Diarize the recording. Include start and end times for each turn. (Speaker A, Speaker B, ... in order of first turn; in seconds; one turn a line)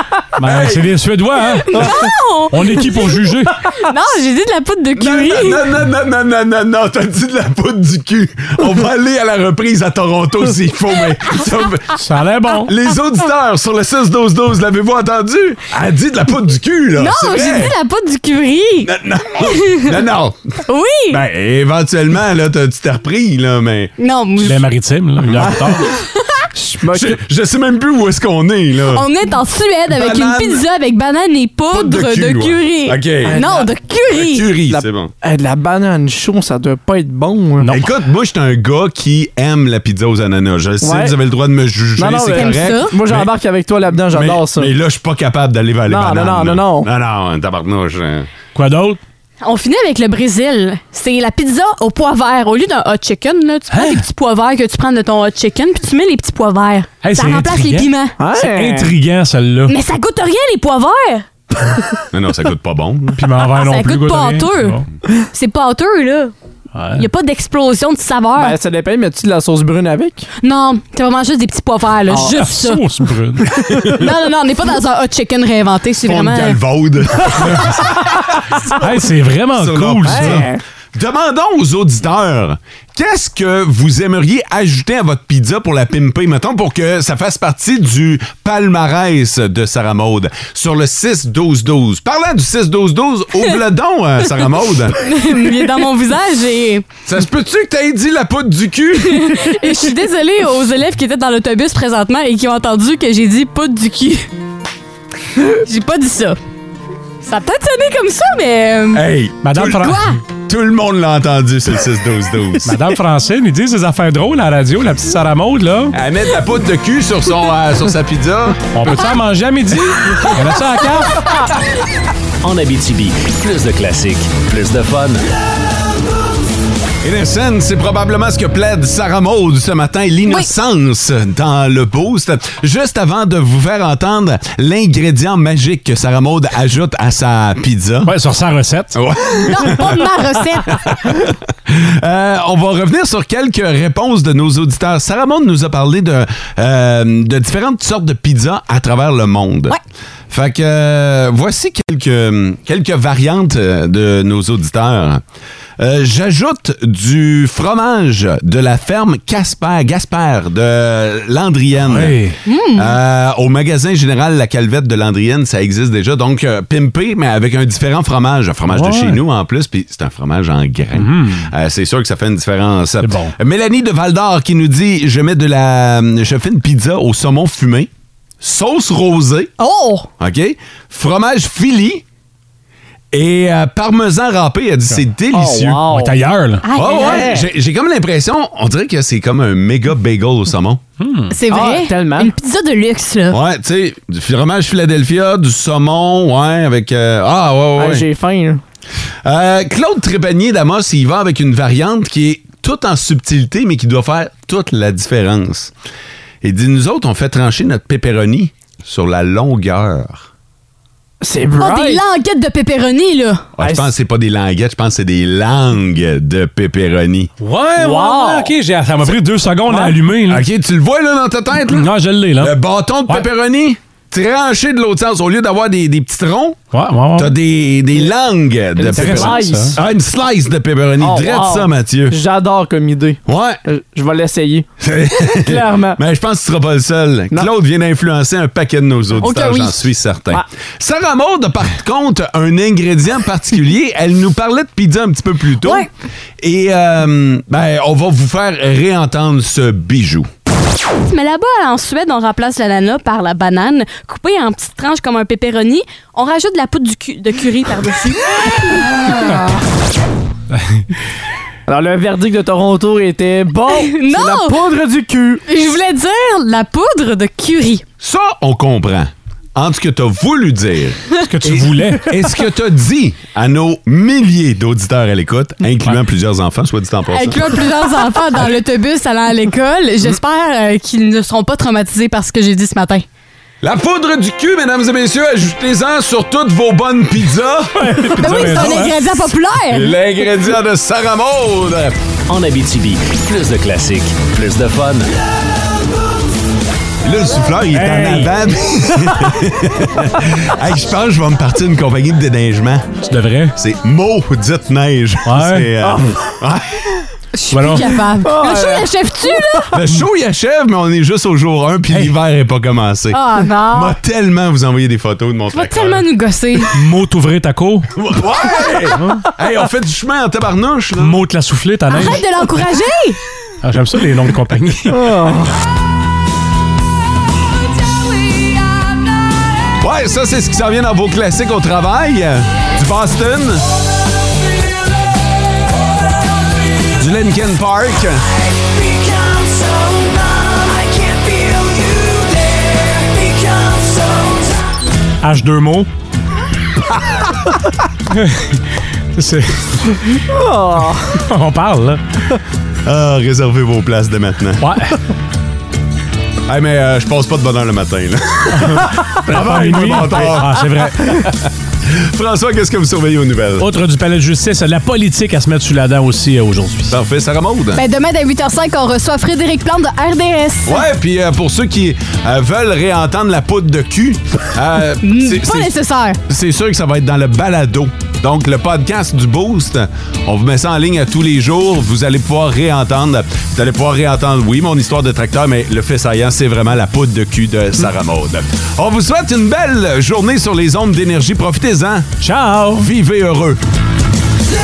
Speaker A: 0.4-3.5
Speaker B: 0.4-0.9
Speaker C: 1.7-3.0
Speaker C: 3.8-5.6
Speaker B: 5.0-12.0
Speaker A: 12.0-12.7
Speaker B: 12.6-17.7
Speaker C: 16.9-19.9
Speaker B: 18.8-20.5
Speaker C: 20.7-21.2
Speaker B: 21.1-23.9
Speaker C: 24.0-24.6
Speaker A: 24.4-25.9
Speaker B: 25.3-25.5
Speaker D: 25.4-25.8
Speaker D: 26.5-27.2
Speaker B: 26.9-29.0
Speaker C: 28.9-34.5
Speaker B: 29.9-30.6
Speaker B: 31.7-33.4
Speaker D: 33.2-33.7
Speaker B: 34.1-35.1
Speaker D: 34.6-37.7
Speaker B: 37.6-43.3
Speaker D: 40.8-41.2
Speaker D: 42.0-44.7
Speaker C: 42.3-42.9
Speaker B: 44.1-48.3
Speaker D: 45.9-46.9
Speaker A: 48.5-49.0
Speaker C: 49.4-58.1
Speaker A: 53.7-54.0
Speaker A: 57.0-59.7
Speaker D: 58.2-59.0
Speaker C: 59.7-61.3
Speaker B: 62.1-63.2
Speaker A: 63.2-64.8
Speaker C: 63.5-64.8
Speaker C: 65.3-66.3
Speaker A: 66.7-67.1
Speaker C: 67.0-68.5
Speaker D: 68.4-70.3
Speaker C: 70.4-72.8
Speaker A: 72.2-73.5
Speaker C: 73.8-76.6
Speaker B: 76.0-77.8
Speaker A: 77.4-77.8
Speaker A: 78.7-80.5
Speaker B: 79.5-95.3
Speaker D: 80.0-80.6
Speaker C: 95.0-96.9
Speaker B: 97.0-99.5
Speaker C: 99.0-104.3
Speaker C: 105.4-106.4
Speaker C: 107.2-109.0
Speaker B: 108.9-109.8
Speaker A: 109.4-109.9
Speaker C: 109.7-110.2
Speaker B: 110.5-112.8
Speaker A: 112.6-115.9
Speaker B: 115.9-119.1
Speaker A: 118.7-121.2
Speaker E: 122.4-125.2
Speaker B: 127.0-138.1
Speaker A: 138.1-139.0
Speaker B: 138.9-140.0
Speaker C: 139.5-140.8
Speaker B: 140.6-149.8
Speaker B: 150.3-155.2
Speaker B: 155.8-162.2
Speaker A: 161.8-162.3
Speaker C: 162.4-163.0
Speaker B: 162.7-177.9
Speaker A: 168.7-169.2
Speaker A: 170.9-171.4
Speaker A: 173.0-173.3
Speaker B: 178.4-179.5
Speaker C: 179.6-180.1
Speaker B: 180.2-182.0
Speaker B: 183.1-185.9
Speaker D: 185.3-187.5
Speaker A: 185.9-186.6
Speaker C: 186.6-187.3
Speaker B: 186.7-190.8
Speaker A: 191.0-191.3
Speaker C: 191.3-193.4
Speaker D: 191.5-192.3
Speaker B: 193.3-198.1
Speaker D: 197.8-198.6
Speaker B: 199.2-205.7
Speaker B: 206.4-210.3
Speaker D: 211.2-212.0
Speaker C: 211.6-213.4
Speaker B: 213.6-217.3
Speaker D: 213.6-213.9
Speaker A: 217.4-220.4
Speaker D: 217.7-218.5
Speaker D: 219.7-220.0
Speaker B: 220.2-226.6
Speaker A: 221.7-222.5
Speaker A: 226.7-227.3
Speaker B: 227.1-232.2
Speaker D: 228.8-229.8
Speaker A: 228.9-229.8
Speaker D: 231.0-234.7
Speaker B: 233.2-233.6
Speaker B: 234.8-245.9
Speaker D: 235.3-236.0
Speaker C: 239.2-239.8
Speaker C: 245.6-245.9
Speaker B: 246.4-250.3
Speaker C: 251.0-259.0
Speaker D: 261.6-265.4
Speaker C: 263.7-264.5
Speaker C: 265.5-267.8
Speaker B: 268.0-277.5
Speaker A: 271.2-272.2
Speaker C: 277.1-283.0
Speaker B: 283.6-288.8
Speaker A: 287.8-289.0
Speaker C: 288.2-289.9
Speaker B: 289.7-292.0
Speaker E: 292.3-295.1
Speaker B: 297.0-303.0
Speaker A: 297.7-298.3
Speaker A: 303.1-303.5
Speaker B: 303.6-306.9
Speaker A: 305.2-305.7
Speaker D: 305.8-306.3
Speaker C: 307.3-309.7
Speaker A: 307.5-307.9
Speaker D: 308.2-309.6
Speaker B: 309.7-316.0
Speaker C: 313.1-314.0
Speaker C: 315.5-316.7
Speaker A: 316.7-317.9
Speaker B: 317.9-321.2
Speaker A: 321.0-322.2
Speaker C: 321.9-323.2
Speaker A: 323.6-325.2
Speaker D: 324.9-325.5
Speaker B: 329.8-333.7
Speaker B: 336.9-338.2
Speaker A: 345.2-345.9
Speaker A: 348.2-348.5
Speaker A: 349.1-349.8
Speaker D: 350.3-351.2
Speaker A: 351.2-352.0
Speaker B: 352.8-354.8
Speaker A: 354.6-355.0
Speaker B: 356.5-360.9
Speaker A: 358.6-361.3
Speaker B: 361.9-363.7
Speaker A: 363.6-366.9
Speaker B: 366.9-367.8
Speaker C: 367.7-370.8
Speaker B: 370.6-375.7
Speaker C: 375.0-376.2
Speaker B: 376.3-392.2
Speaker A: 392.2-392.9
Speaker B: 392.7-393.6